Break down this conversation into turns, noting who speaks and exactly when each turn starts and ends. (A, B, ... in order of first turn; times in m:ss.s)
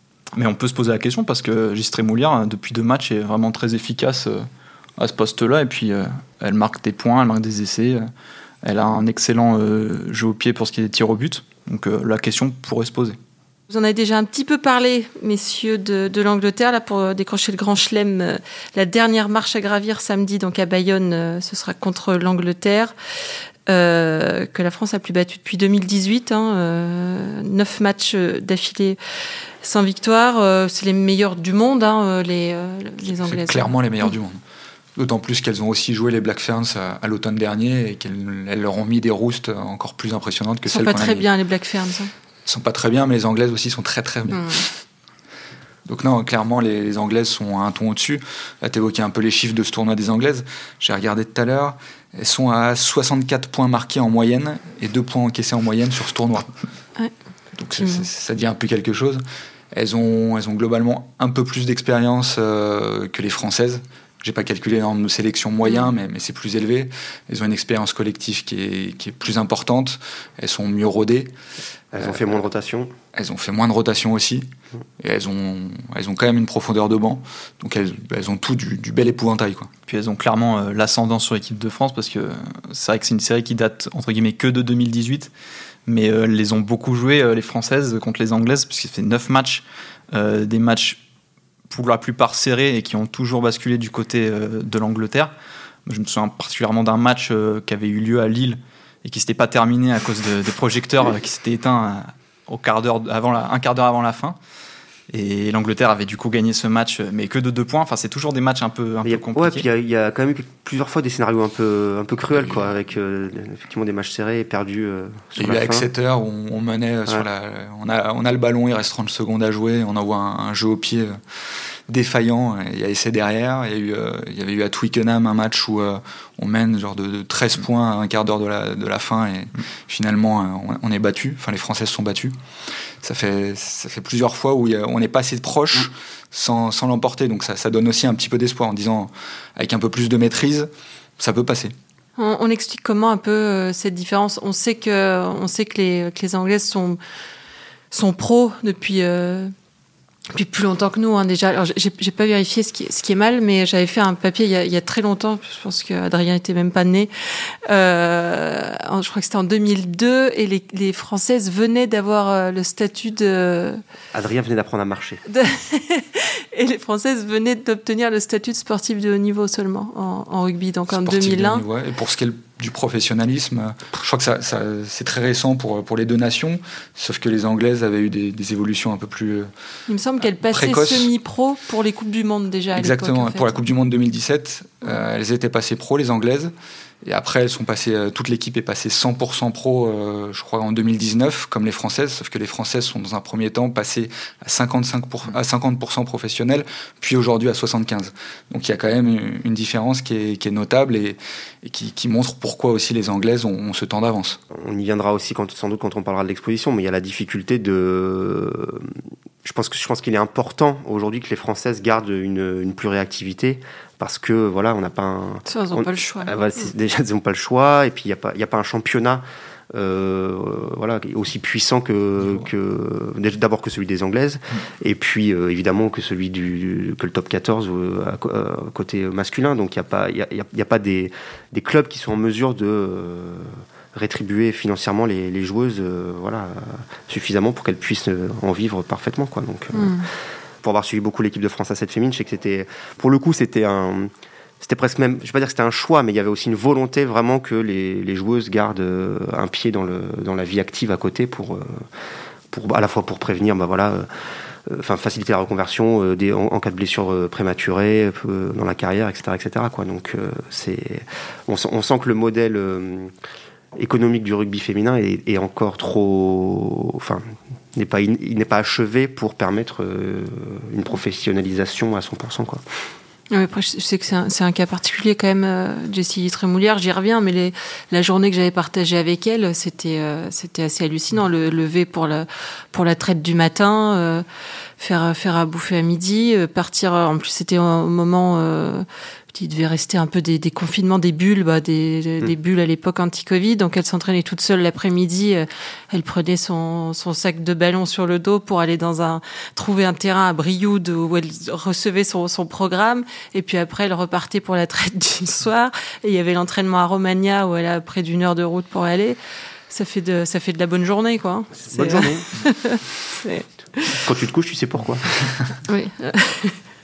0:00.3-0:08.1 A
0:08.6-0:13.2 A
0:13.7-0:22.9 B
0:23.7-0:29.0 B
0:29.6-0:33.7 B
0:33.1-0:34.4 C
0:35.0-0:41.2 C
0:40.7-0:42.1 B
0:42.4-0:44.8 C
0:44.3-0:44.6 B
0:45.8-0:56.5 C
0:57.6-1:11.3 C
0:57.8-0:58.0 B
1:11.9-1:12.9 D
1:13.1-1:14.5 C
1:15.0-1:19.7 C
1:19.9-1:25.3 A
1:25.8-1:31.0 A
1:31.7-1:35.3 A
1:35.8-1:44.4 A
1:45.1-1:49.6 A
1:49.0-1:55.9 D
1:55.4-2:12.3 C
2:13.0-2:21.7 C
2:22.2-2:27.0 B
2:27.9-2:29.5 B
2:30.3-2:43.8 B
2:44.1-2:45.2 D
2:45.3-2:51.6 B
2:50.9-2:59.5 C
2:59.9-3:03.5 B
3:00.5-3:01.1 C
3:02.8-3:06.5 C
3:07.0-3:24.4 C
3:24.5-4:00.1 D
3:35.4-3:36.3 B
3:59.7-4:00.0 B
4:00.6-4:04.1 D
4:04.6-4:11.8 D
4:12.5-4:14.1 D
4:14.7-4:23.1 D
4:23.7-4:32.6 D
4:33.3-4:44.2 B
4:44.8-5:09.2 B
5:09.7-5:14.0 B
5:11.7-5:12.2 D
5:13.9-5:15.3 D
5:15.7-5:16.6 B